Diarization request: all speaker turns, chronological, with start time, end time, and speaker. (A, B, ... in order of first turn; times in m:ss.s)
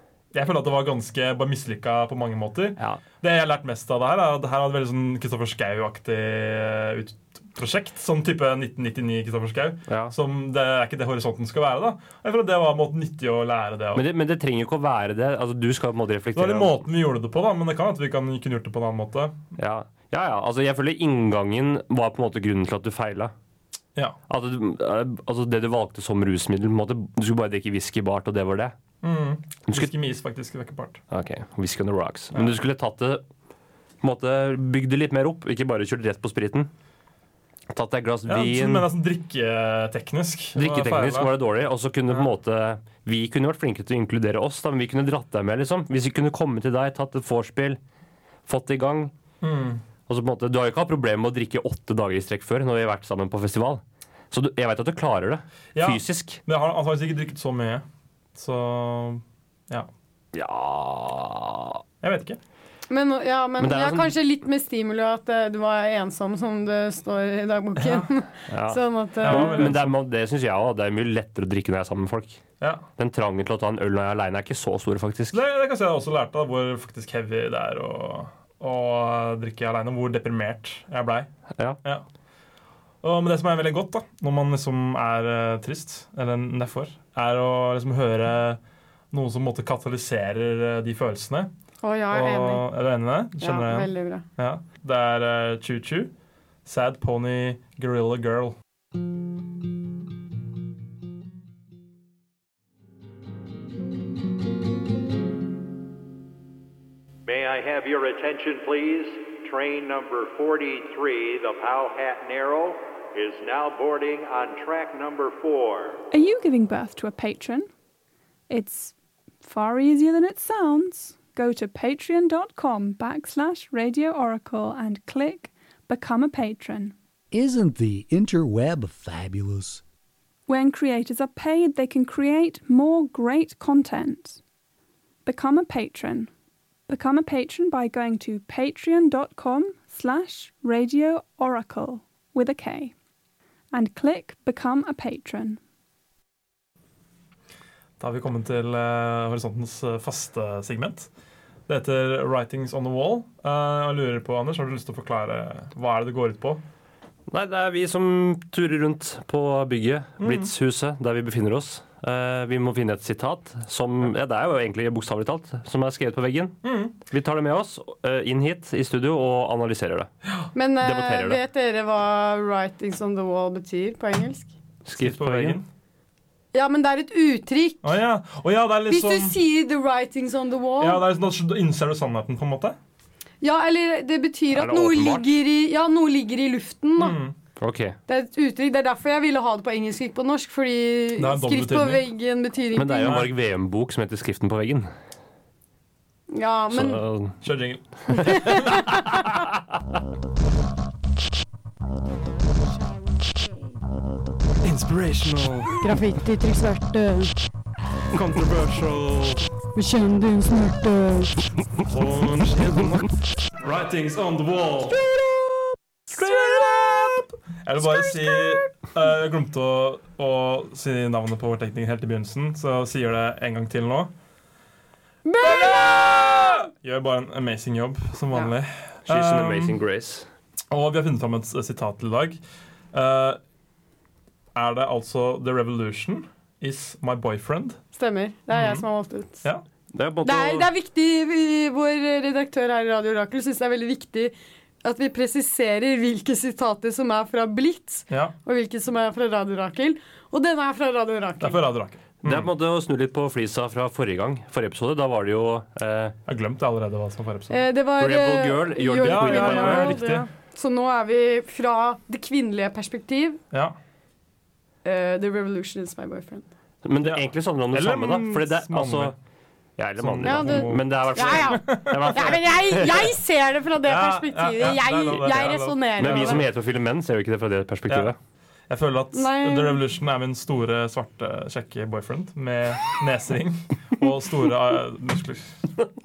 0:00.3-0:14.1 A
0:09.9-0:10.2 B
0:13.9-0:16.8 B
0:16.4-0:19.4 A
0:19.6-0:23.3 B
0:24.3-0:28.8 B
0:29.0-0:31.0 A
0:31.1-0:33.2 B
0:32.3-0:32.6 A
0:34.0-0:36.7 B
0:37.7-0:38.9 B
0:38.3-0:41.3 A
0:40.6-0:47.8 B
0:48.5-0:49.1 B
0:49.4-0:49.8 A
0:50.1-0:56.4 B
0:55.8-0:57.8 A
0:58.4-0:59.9 A
1:00.3-1:01.8 B
1:02.0-1:02.4 A
1:02.9-1:09.7 C
1:03.6-1:04.2 B
1:07.8-1:08.1 A
1:08.5-1:12.4 B
1:09.2-1:10.0 A
1:12.6-1:12.9 A
1:13.0-1:15.4 B
1:15.3-1:21.3 A
1:23.0-1:28.6 A
1:29.1-1:31.5 A
1:31.8-1:32.7 C
1:32.1-1:36.1 A
1:33.4-1:34.2 C
1:36.6-1:38.6 A
1:47.3-1:56.0 D
1:56.1-1:57.7 E
1:58.5-2:07.0 E
2:07.3-2:09.8 F
2:10.5-2:14.4 E
2:15.2-2:16.3 E
2:16.9-2:22.9 E
2:23.7-2:25.6 E
2:28.0-2:31.1 A
2:31.7-2:36.6 A
2:37.3-2:50.1 B
2:40.2-2:40.5 A
2:46.6-2:46.9 A
2:50.6-2:54.5 C
2:50.8-2:51.4 B
2:54.8-2:55.6 B
2:55.0-2:55.7 A
2:56.5-2:57.9 C
2:57.8-2:59.4 A
2:58.9-3:01.0 C
3:00.8-3:02.8 A
3:03.4-3:07.2 C
3:04.5-3:05.4 B
3:07.0-3:07.4 A
3:07.6-3:08.0 B
3:08.1-3:13.2 C
3:11.2-3:12.1 A
3:12.8-3:14.9 B
3:13.0-3:13.3 A
3:16.3-3:17.0 C
3:16.7-3:17.4 B
3:17.4-3:18.9 A
3:18.1-3:19.4 C
3:24.6-3:25.8 A
3:25.8-3:27.3 C
3:28.1-3:29.5 A
3:29.8-3:31.3 C
3:31.8-3:35.0 A
3:36.1-3:44.1 A
3:36.2-3:36.8 C
3:37.8-3:38.7 C
3:45.2-3:46.7 C
3:45.4-3:49.8 A
3:49.1-3:50.3 B
3:50.7-3:52.4 A
3:52.9-3:53.4 A
3:54.6-3:57.8 A
3:58.0-3:59.4 C
3:58.5-3:58.8 A
3:59.9-4:00.7 B
4:00.2-4:11.6 C
4:08.1-4:08.4 A
4:11.4-4:12.5 A
4:12.2-4:16.2 B
4:16.3-4:17.6 A
4:17.5-4:23.4 C
4:18.0-4:20.0 B
4:19.0-4:20.3 A
4:23.5-4:23.8 A
4:24.8-4:26.4 C
4:26.8-4:29.2 B
4:27.0-4:29.2 A
4:29.8-4:33.1 B
4:30.0-4:32.4 A
4:30.2-4:36.4 C
4:33.8-4:36.5 A
4:36.0-4:38.2 B
4:37.9-4:38.1 A
4:38.7-4:45.7 A
4:39.1-4:39.8 C